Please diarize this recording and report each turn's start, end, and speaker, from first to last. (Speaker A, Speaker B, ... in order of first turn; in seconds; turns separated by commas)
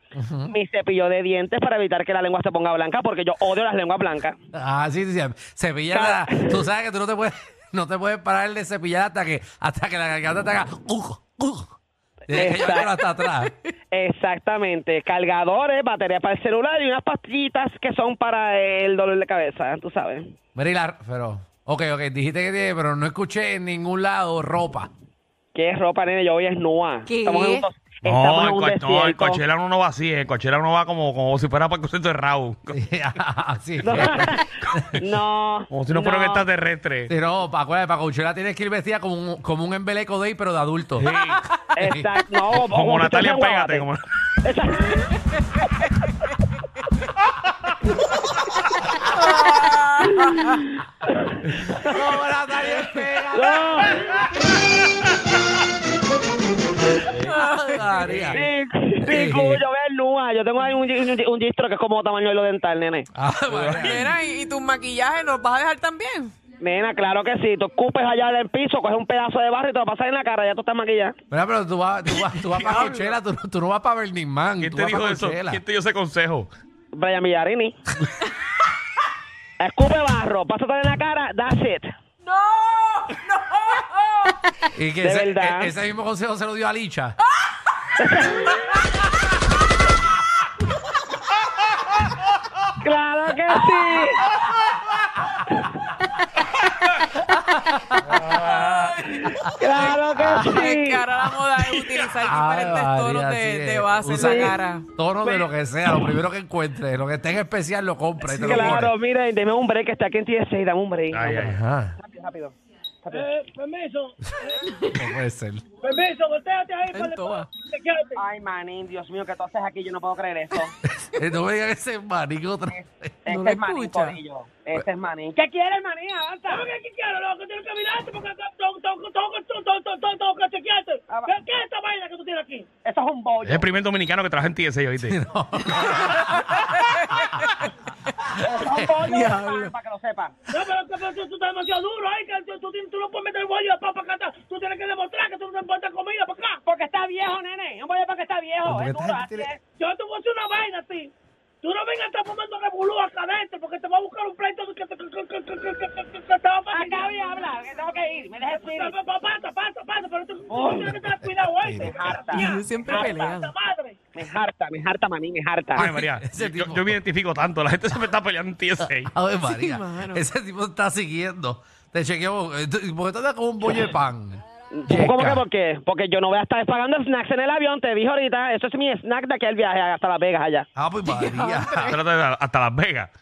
Speaker A: 0.1-0.6, Speaker B: 0.5-4.4, Speaker A: 4.5-11.7, Speaker B: 5.9-6.7, Speaker A: 12.3-13.6, Speaker B: 12.3-13.0, Speaker B: 13.9-20.3, Speaker A: 20.6-24.9, Speaker B: 25.5-29.4, Speaker C: 27.1-27.7, Speaker D: 28.1-32.8, Speaker A: 32.7-35.0, Speaker D: 33.8-35.0, Speaker B: 33.8-36.5, Speaker D: 35.7-37.1, Speaker A: 37.1-41.1, Speaker D: 41.0-41.5, Speaker B: 41.8-43.9, Speaker A: 41.8-42.1, Speaker D: 42.5-44.0, Speaker B: 44.4-45.2, Speaker C: 49.4-50.4, Speaker B: 49.8-52.0, Speaker A: 51.8-54.0, Speaker B: 53.3-54.1, Speaker A: 57.0-58.5, Speaker C: 57.3-58.1, Speaker D: 58.1-58.4, Speaker B: 58.3-63.1, Speaker A: 59.0-59.6, Speaker A: 63.1-64.1, Speaker D: 63.5-63.9, Speaker C: 63.7-66.3, Speaker B: 66.6-71.2, Speaker A: 71.3-75.6, Speaker D: 72.1-73.2, Speaker D: 74.6-76.5, Speaker B: 77.0-77.8, Speaker B: 79.6-81.9, Speaker C: 82.2-84.4, Speaker A: 84.7-87.2, Speaker B: 85.0-85.7, Speaker B: 88.0-88.8, Speaker B: 92.8-94.3, Speaker A: 97.3-98.2, Speaker D: 98.0-99.0, Speaker C: 98.3-99.2, Speaker B: 99.3-101.1, Speaker C: 99.7-104.9, Speaker A: 100.2-100.5, Speaker A: 102.2-108.9, Speaker B: 104.1-104.6, Speaker B: 108.3-111.4, Speaker D: 111.1-111.6, Speaker A: 111.3-112.0, Speaker B: 112.0-113.3, Speaker E: 113.1-114.7, Speaker C: 114.7-115.0, Speaker A: 114.9-115.6, Speaker E: 115.8-118.2, Speaker C: 116.9-117.5, Speaker B: 118.2-120.8, Speaker A: 120.8-123.2, Speaker B: 122.7-126.7, Speaker C: 123.3-124.2, Speaker E: 126.5-132.7, Speaker B: 131.1-131.3, Speaker B: 132.8-133.7, Speaker D: 133.4-135.2, Speaker A: 135.0-136.6, Speaker C: 136.6-137.3, Speaker B: 138.3-140.3, Speaker A: 138.4-139.0, Speaker C: 139.1-139.7, Speaker E: 140.5-146.6, Speaker B: 146.6-149.6, Speaker A: 148.7-149.5, Speaker E: 149.8-151.1, Speaker E: 151.6-157.1, Speaker B: 156.7-158.9, Speaker E: 158.5-164.0, Speaker B: 160.5-161.0, Speaker A: 161.2-162.4, Speaker B: 161.8-163.3, Speaker C: 162.3-163.6, Speaker B: 164.2-165.9, Speaker A: 165.8-167.0, Speaker D: 165.8-169.1, Speaker A: 168.8-175.4, Speaker C: 169.4-170.2, Speaker B: 174.7-180.7, Speaker A: 180.8-182.0, Speaker C: 181.1-181.9, Speaker D: 181.9-183.1